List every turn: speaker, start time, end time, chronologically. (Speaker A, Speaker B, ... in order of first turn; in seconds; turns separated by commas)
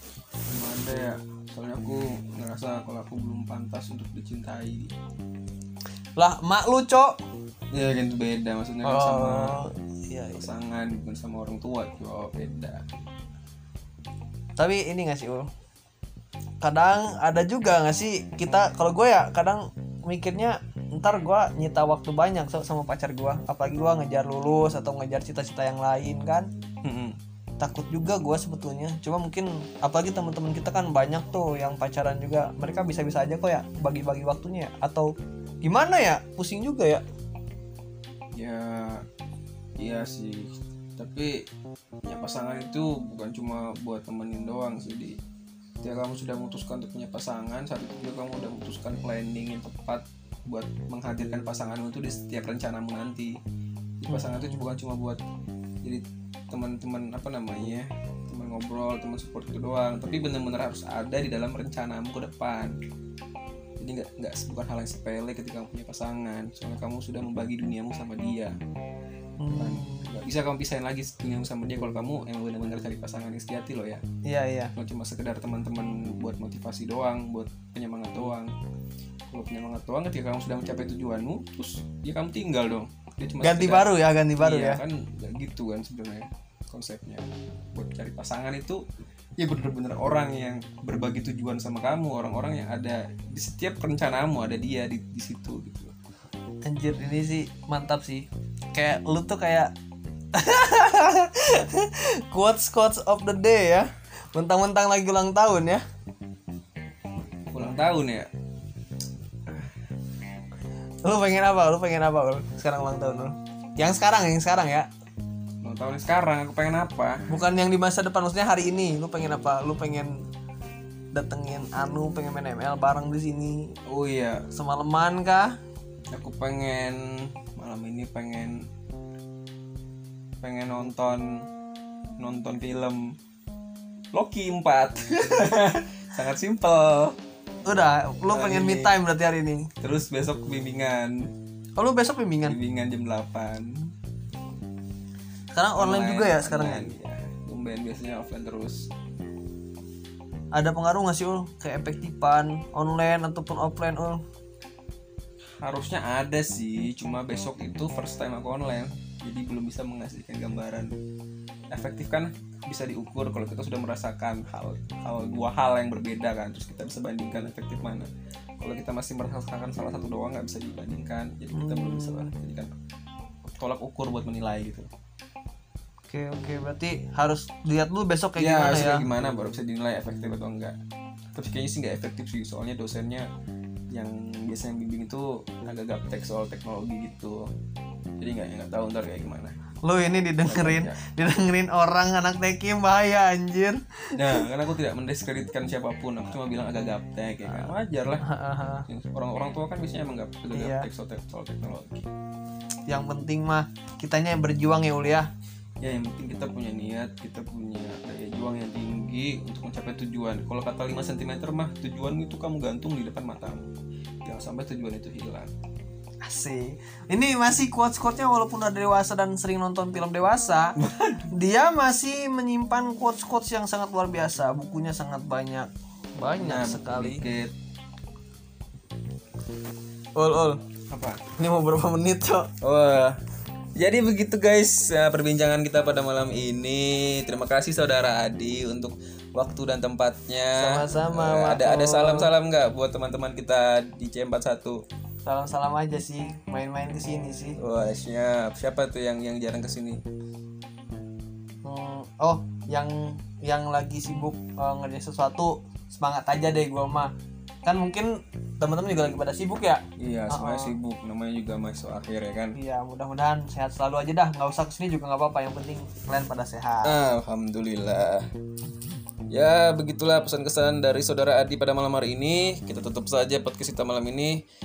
Speaker A: 0.5-4.9, Speaker B: 6.2-7.2, Speaker A: 7.7-9.6, Speaker B: 8.8-10.5, Speaker A: 10.4-12.8, Speaker B: 14.6-15.5, Speaker B: 16.6-26.5, Speaker A: 26.8-27.2, Speaker B: 27.6-37.0, Speaker A: 38.3-39.0, Speaker A: 39.8-41.5, Speaker A: 42.0-45.2, Speaker A: 45.8-53.4, Speaker A: 54.0-55.2, Speaker B: 54.1-54.8, Speaker A: 55.8-62.7, Speaker A: 63.8-68.5, Speaker B: 69.4-70.1, Speaker A: 69.6-74.0, Speaker B: 74.2-74.7, Speaker A: 74.8-78.5, Speaker A: 79.3-88.8, Speaker B: 83.4-84.8, Speaker A: 89.4-96.0, Speaker B: 96.6-99.7, Speaker B: 100.3-105.8, Speaker A: 107.5-108.3, Speaker B: 111.0-114.9, Speaker A: 115.6-117.3, Speaker B: 117.3-120.2, Speaker B: 121.1-123.8, Speaker A: 123.9-124.5, Speaker B: 124.5-125.6, Speaker A: 126.1-128.7, Speaker A: 130.4-131.5, Speaker A: 132.2-133.2, Speaker A: 134.1-137.2, Speaker B: 137.7-139.7, Speaker A: 138.3-138.9, Speaker A: 139.8-141.3, Speaker B: 141.8-142.6, Speaker A: 142.5-143.9, Speaker B: 145.5-146.9, Speaker A: 145.8-148.9, Speaker B: 150.5-154.2, Speaker A: 155.6-160.9, Speaker A: 161.7-172.7, Speaker B: 171.5-172.3, Speaker A: 173.6-174.9, Speaker B: 176.1-179.1, Speaker A: 178.4-180.8, Speaker A: 181.3-183.3, Speaker A: 183.9-187.5, Speaker A: 188.2-189.6, Speaker B: 189.8-194.4, Speaker A: 190.4-191.0, Speaker A: 194.2-198.2, Speaker B: 198.2-198.9, Speaker A: 198.9-202.1, Speaker B: 200.5-200.9, Speaker B: 202.9-205.3, Speaker A: 205.8-213.7, Speaker A: 214.2-215.5, Speaker B: 216.2-227.2, Speaker A: 220.8-221.3, Speaker A: 226.4-227.6, Speaker B: 230.2-230.6, Speaker A: 230.9-231.2, Speaker B: 231.3-232.5, Speaker A: 232.6-233.2, Speaker A: 233.8-244.8, Speaker B: 240.5-242.3, Speaker B: 245.3-247.6, Speaker A: 247.6-250.0, Speaker B: 251.6-257.1, Speaker B: 257.6-260.8, Speaker A: 260.0-262.6, Speaker B: 262.6-266.9, Speaker A: 266.8-268.3, Speaker A: 269.3-274.4